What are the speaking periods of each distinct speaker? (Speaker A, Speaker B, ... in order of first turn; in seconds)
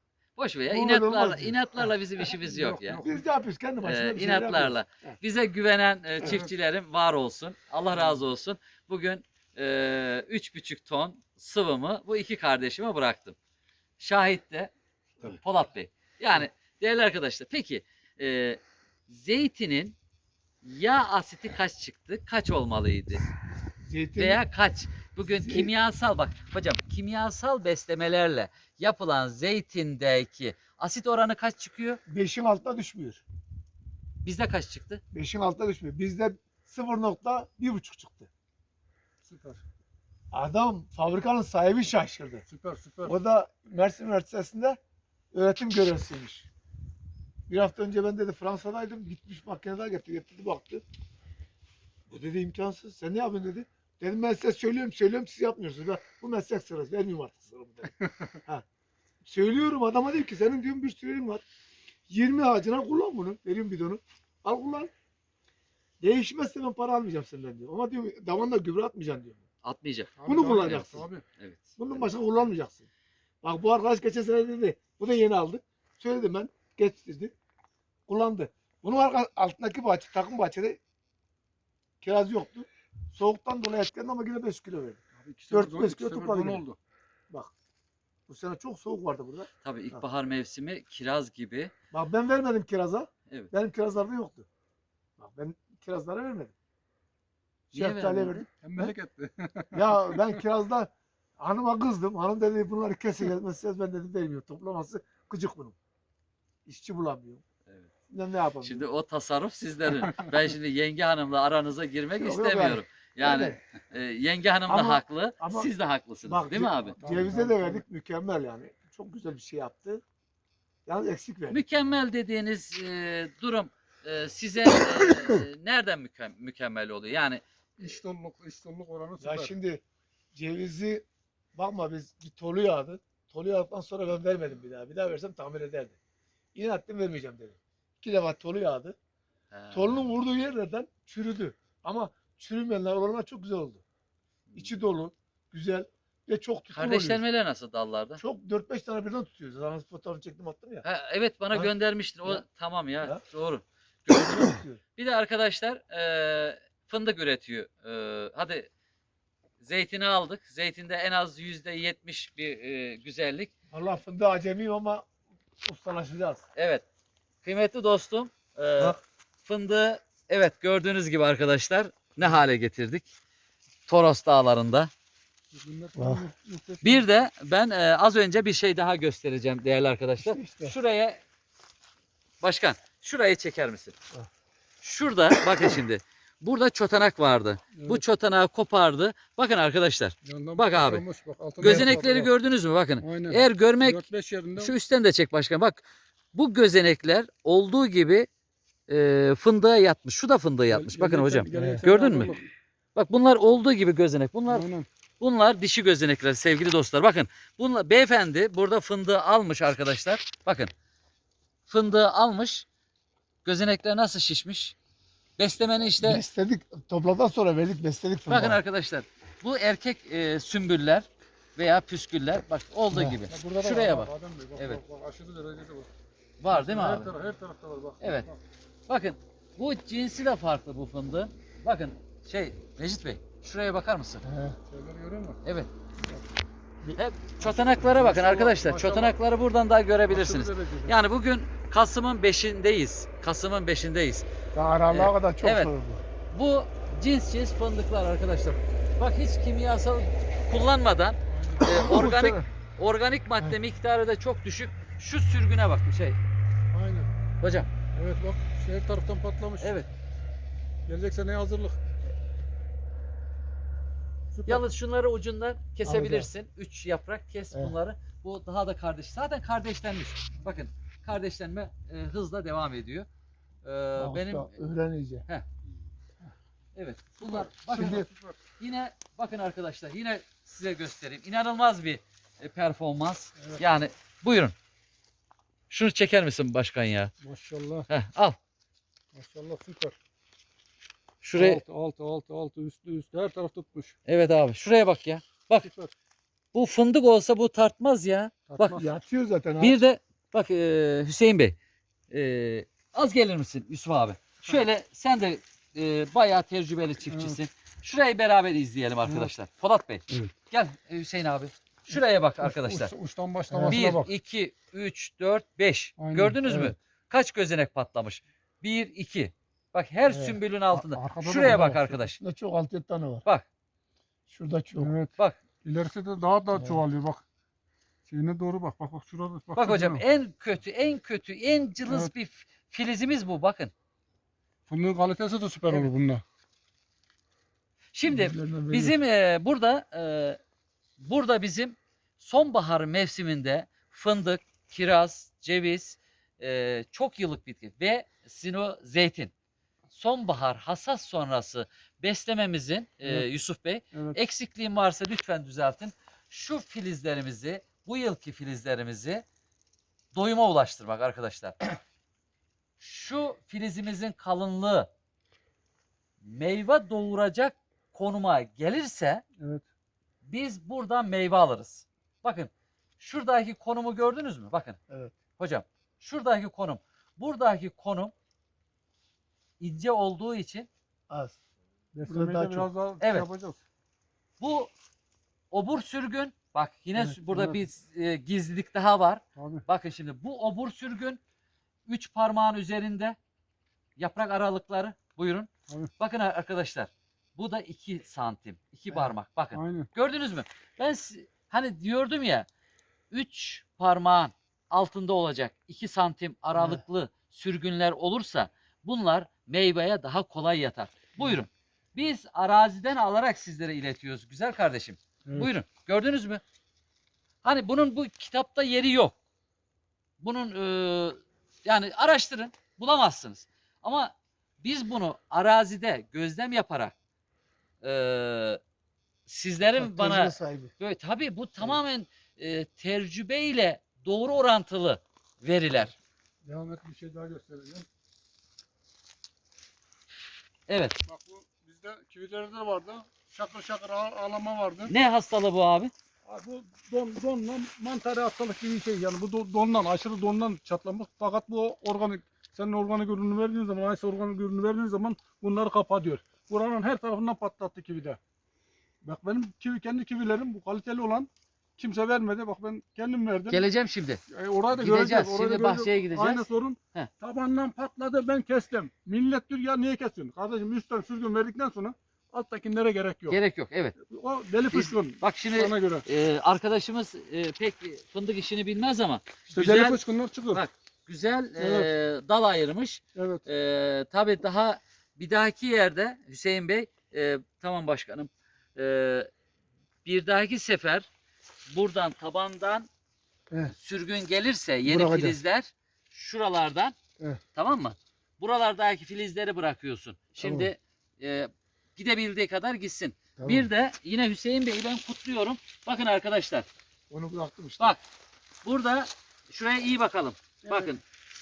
Speaker A: 0.3-3.0, 3.8-13.3, 14.0-14.7, 15.4-19.9, 20.6-23.2, 24.2-32.0, 34.2-35.0, 69.6-70.1, 71.4-72.1, 89.6-91.7, 97.7-98.5, 108.6-117.0, 121.5-127.4, 139.5-140.1, 146.7-148.2, 150.8-158.7, 159.6-163.5, 166.5-166.8, 167.4-173.1, 173.9-174.9, 176.8-181.2, 182.4-183.9, 184.8-191.0, 191.6-194.0, 194.6-198.3, 198.9-202.4, 202.9-204.7, 205.2-210.7, 211.7-212.6, 213.4-214.7, 215.4-216.2, 218.3-224.8, 226.4-227.1, 228.0-228.3, 228.9-234.2, 235.4-235.7, 236.9-244.2, 244.9-245.7, 246.3-256.2, 257.4-257.7, 259.6-259.9, 264.4-273.1, 273.6-274.6, 276.7-278.0, 278.6-284.5, 285.7-287.1, 287.9-288.4, 291.2-291.6, 294.1-295.7, 296.5-298.8, 299.6-301.6, 302.1-312.9, 313.7-322.2, 329.5-333.7, 337.9-340.4, 341.0-349.3, 349.9-359.2, 360.1-361.6, 362.8-364.9, 366.2-369.2, 370.2-374.8, 375.4-378.1, 379.6-380.7, 383.0-383.3, 384.4-384.7, 385.5-391.2, 391.9-393.2, 394.0-402.5, 403.1-416.4, 417.4-419.1, 420.2-426.9, 427.8-428.6, 429.3-435.9, 440.7-440.9, 444.9-445.9, 463.5-464.2, 464.7-467.1, 473.3-473.9, 474.7-480.0, 480.5-489.3, 490.0-491.1, 491.7-492.9, 493.7-496.9, 497.5-506.7, 508.6-511.0
Speaker B: 0.7-1.9, 2.9-5.2, 23.8-24.4, 25.4-25.7, 32.1-33.2, 35.1-38.3, 40.3-42.4, 43.0-44.8, 45.3-46.5, 47.5-50.8, 52.1-58.6, 59.2-61.4, 62.1-64.9, 66.0-69.4, 70.2-71.1, 71.8-72.9, 73.4-77.3, 78.1-80.8, 82.0-85.0, 85.5-86.6, 88.3-90.0, 91.9-94.5, 95.2-96.5, 97.7-98.9, 99.7-105.8, 106.7-107.4, 108.1-108.8, 112.2-113.6, 114.7-115.7, 116.2-120.0, 120.8-121.6, 129.2-129.8, 130.3-136.0, 136.5-138.9, 139.7-143.8, 144.5-147.2, 148.2-150.8, 154.1-154.8, 163.7-165.1, 165.6-166.4, 175.9-176.2, 180.2-180.7, 191.6-192.0, 201.5-201.8, 216.0-218.6, 222.9-223.2, 234.2-234.6, 244.5-246.0, 251.7-252.5, 265.8-266.3, 274.0-275.2, 277.7-278.1, 298.8-299.8, 313.5-313.8, 320.1-320.4, 322.2-323.2, 324.3-324.9, 326.5-326.8, 338.1-338.9, 374.9-375.1, 381.1-381.4, 382.0-382.7, 406.6-406.8, 429.8-430.7, 494.9-495.4, 500.4-500.7, 503.4-503.7, 507.1-507.9
Speaker C: 2.4-3.2, 39.2-39.6, 42.5-43.2, 70.2-71.2, 85.1-86.8, 98.6-100.4, 117.0-117.8, 127.8-129.5, 175.5-177.1, 187.7-188.0, 190.2-192.3, 193.0-194.7, 200.7-202.5, 204.5-204.8, 223.3-225.9, 226.5-228.4, 234.7-235.4, 237.4-239.2, 240.1-240.9, 251.3-251.8, 256.7-257.1, 257.9-259.8, 260.9-261.8, 264.3-264.6, 277.2-278.4, 287.2-287.9, 289.1-289.9, 291.3-293.9, 295.6-295.9, 298.5-298.9, 307.1-307.4, 309.0-309.3, 311.9-314.1, 316.0-316.8, 320.7-322.0, 324.8-327.2, 328.1-330.0, 331.8-332.1, 334.7-336.2, 369.4-369.6, 381.9-383.6, 387.0-387.6, 389.4-389.6, 399.5-399.9, 436.4-437.9, 441.1-444.9, 446.2-458.2, 459.0-463.6, 464.3-473.4, 474.1-476.0, 479.5-480.6, 481.6-481.9, 483.1-483.4, 510.6-510.9